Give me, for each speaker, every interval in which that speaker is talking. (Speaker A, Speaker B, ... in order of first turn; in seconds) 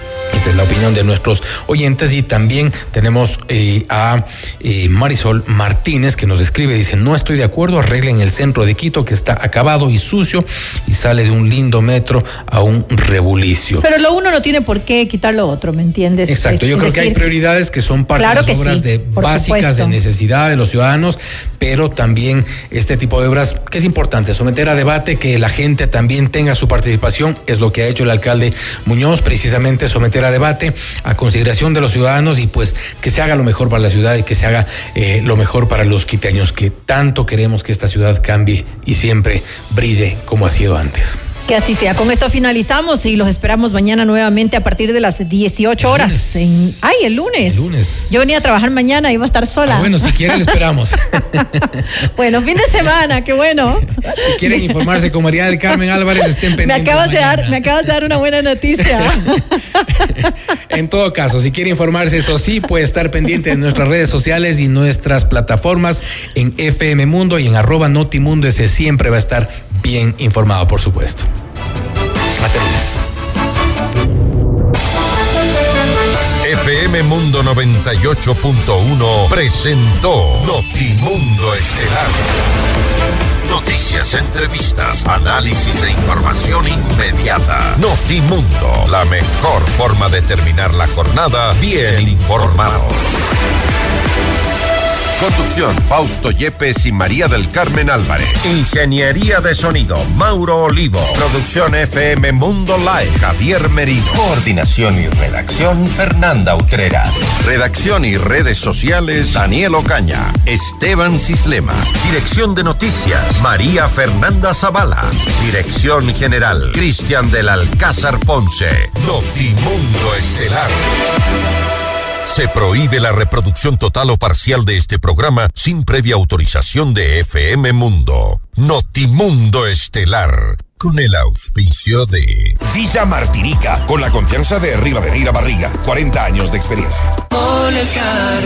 Speaker A: 0.3-13.8, 16.3-41.2, 45.8-48.1, 49.6-51.7, 54.2-57.9, 58.8-59.1, 60.7-71.3, 72.4-73.0
Speaker B: 13.8-17.2, 18.2-20.0, 41.5-50.5, 52.0-54.9, 56.6-59.8
Speaker C: 76.4-82.4, 83.4-93.0, 95.2-120.8, 122.2-132.6
Speaker D: 132.7-137.0